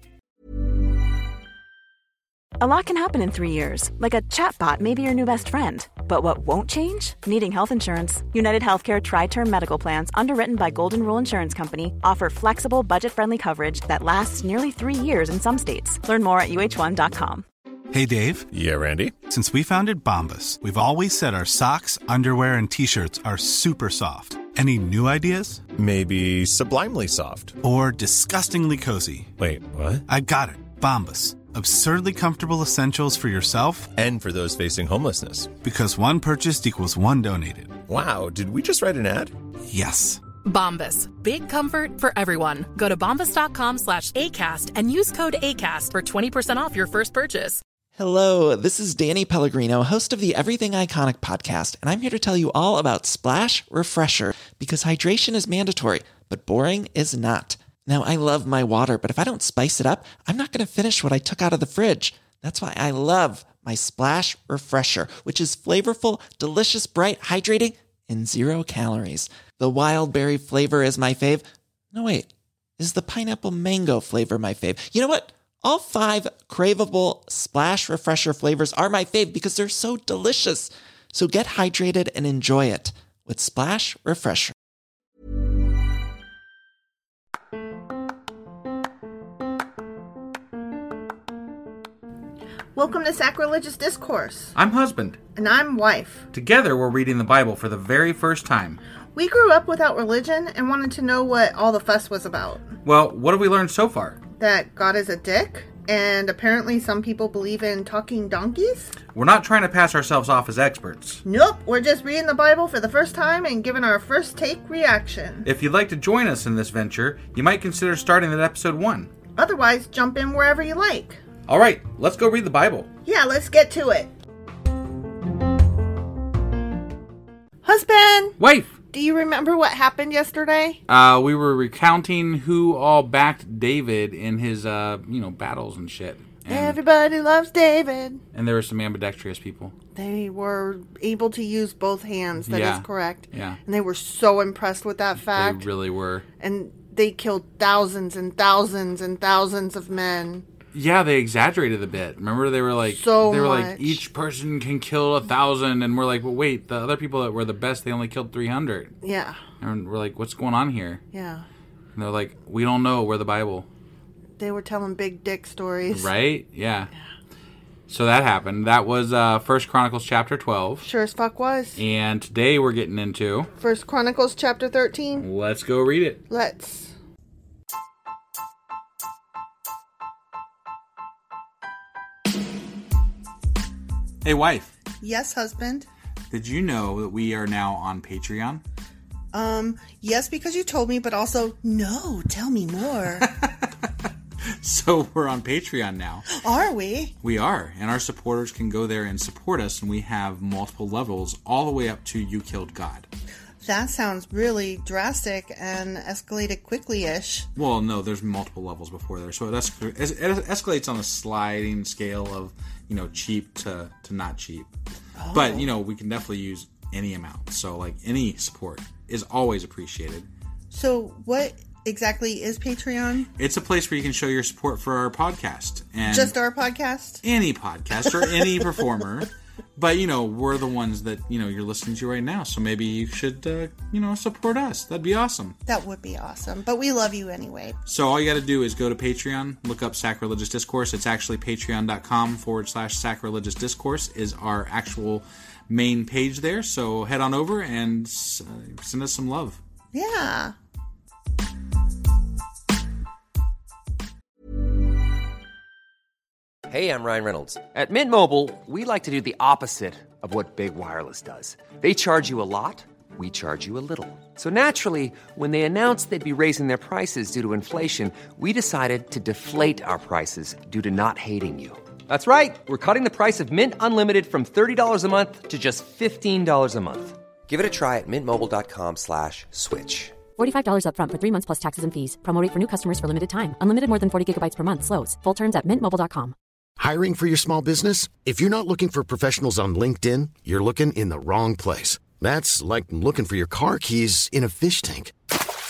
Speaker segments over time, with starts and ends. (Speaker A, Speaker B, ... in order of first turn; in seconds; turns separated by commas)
Speaker A: 2.6-17.4, Speaker B: 17.9-18.4, Speaker B: 19.3-25.6, Speaker C: 26.0-27.4, Speaker B: 27.6-29.3, Speaker B: 30.1-33.9, Speaker C: 34.1-35.4, Speaker B: 35.6-37.8, Speaker C: 37.9-39.2, Speaker B: 39.7-40.2, Speaker D: 40.4-47.6, Speaker E: 48.0-84.5, Speaker F: 92.7-94.5, Speaker G: 94.5-95.2, Speaker F: 95.3-96.2, Speaker G: 96.3-98.8, Speaker F: 99.1-102.7, Speaker G: 102.8-104.2, Speaker F: 104.4-108.9, Speaker G: 109.1-111.2, Speaker F: 111.2-115.5, Speaker G: 115.4-119.1, Speaker F: 119.3-121.2, Speaker G: 121.5-122.9, Speaker F: 123.0-124.1, Speaker F: 127.6-128.3, Speaker G: 128.4-128.7, Speaker F: 128.9-130.8, Speaker G: 130.9-136.8, Speaker F: 136.5-138.2, Speaker G: 138.3-139.7, Speaker F: 139.9-145.7, Speaker G: 142.4-143.6, Speaker G: 145.2-146.2, Speaker F: 146.4-150.4, Speaker G: 150.7-158.9, Speaker F: 152.9-154.0, Speaker F: 159.0-159.4, Speaker G: 159.6-161.0, Speaker F: 161.1-161.5, Speaker G: 161.9-163.7, Speaker F: 164.4-166.1, Speaker G: 165.9-166.9, Speaker G: 167.9-170.9, Speaker F: 170.8-171.8, Speaker G: 171.8-173.5, Speaker F: 173.6-175.2, Speaker G: 175.2-176.2, Speaker F: 176.3-176.9, Speaker G: 184.2-184.7, Speaker F: 185.0-185.9, Speaker G: 186.3-188.6, Speaker F: 189.3-193.3, Speaker G: 193.2-193.7, Speaker G: 194.6-196.2, Speaker F: 196.3-197.1, Speaker G: 197.2-203.1, Speaker F: 203.6-207.5, Speaker G: 207.6-214.7, Speaker F: 215.2-215.7, Speaker G: 215.3-220.3, Speaker F: 220.7-223.3, Speaker G: 223.3-226.3, Speaker F: 226.1-227.2, Speaker G: 227.2-235.6, Speaker F: 228.2-228.5, Speaker F: 235.7-237.8, Speaker G: 237.8-249.6, Speaker F: 249.9-250.5, Speaker H: 259.9-272.7, Speaker I: 280.4-286.3, Speaker J: 286.8-295.1